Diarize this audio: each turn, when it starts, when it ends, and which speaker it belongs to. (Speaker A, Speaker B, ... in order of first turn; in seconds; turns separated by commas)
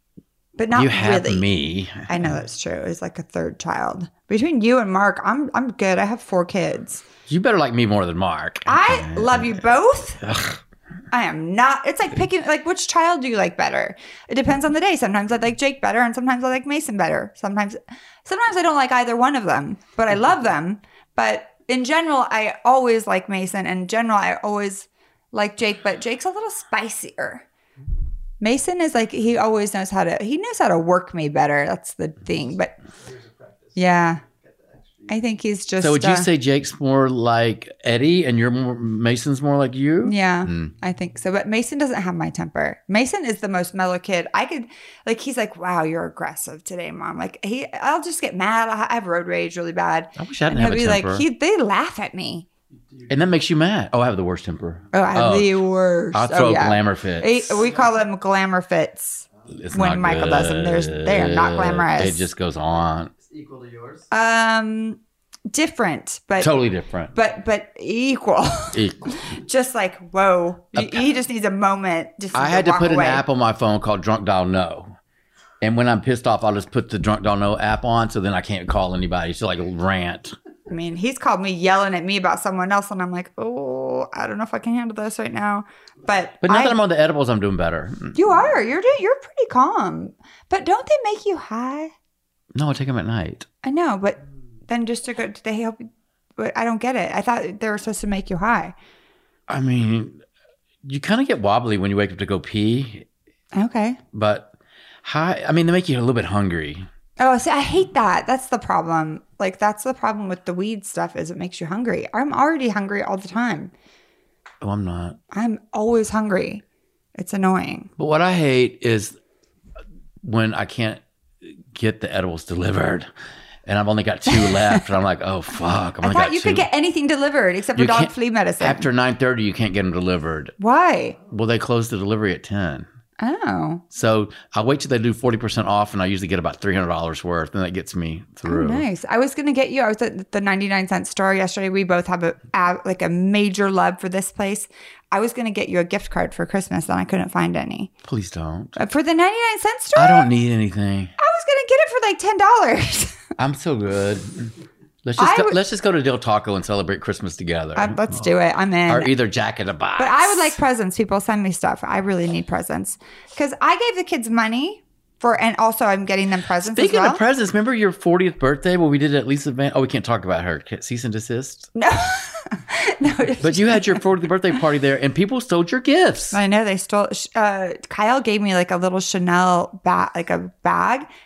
Speaker A: 0.6-1.4, Speaker B: 0.7-2.4, Speaker A: 2.1-7.0, Speaker B: 7.3-10.6, Speaker A: 8.7-10.2, Speaker A: 11.1-27.4, Speaker A: 28.4-32.7, Speaker C: 32.9-35.3, Speaker A: 33.8-34.2, Speaker A: 35.1-36.3, Speaker B: 35.8-40.7, Speaker A: 40.0-52.5, Speaker B: 50.1-51.2, Speaker C: 52.7-53.2, Speaker B: 53.1-57.6, Speaker A: 54.9-62.3, Speaker C: 59.4-59.7, Speaker B: 59.5-63.1, Speaker C: 62.8-64.1, Speaker A: 64.1-65.0, Speaker A: 65.5-66.5, Speaker B: 66.4-67.2, Speaker A: 67.1-73.2, Speaker B: 68.7-69.2, Speaker B: 70.7-71.1, Speaker B: 72.3-75.0, Speaker B: 75.6-80.3, Speaker A: 80.7-86.8, Speaker B: 86.4-88.2, Speaker A: 88.1-91.9, Speaker B: 92.5-93.5, Speaker A: 93.6-98.7, Speaker B: 99.5-100.2, Speaker B: 100.8-103.1, Speaker A: 103.5-104.0, Speaker B: 104.1-106.9, Speaker A: 107.2-113.7, Speaker B: 114.6-115.2, Speaker A: 115.3-116.6, Speaker A: 117.2-117.9, Speaker B: 118.0-119.2, Speaker B: 120.2-123.1, Speaker B: 123.7-126.7, Speaker A: 124.3-124.8, Speaker A: 126.0-128.8, Speaker B: 127.7-130.5, Speaker A: 130.6-131.2, Speaker B: 131.3-132.9, Speaker A: 133.2-133.8, Speaker B: 133.9-138.8, Speaker A: 138.4-147.9, Speaker B: 148.1-148.8, Speaker A: 148.8-150.3, Speaker B: 149.9-151.1, Speaker A: 151.2-153.2, Speaker B: 153.4-154.5, Speaker B: 155.0-158.0, Speaker A: 155.2-155.6, Speaker A: 157.8-159.1, Speaker B: 158.9-160.6, Speaker A: 159.9-167.2, Speaker B: 166.6-171.7, Speaker A: 171.7-174.5, Speaker B: 173.4-176.4, Speaker A: 176.3-181.1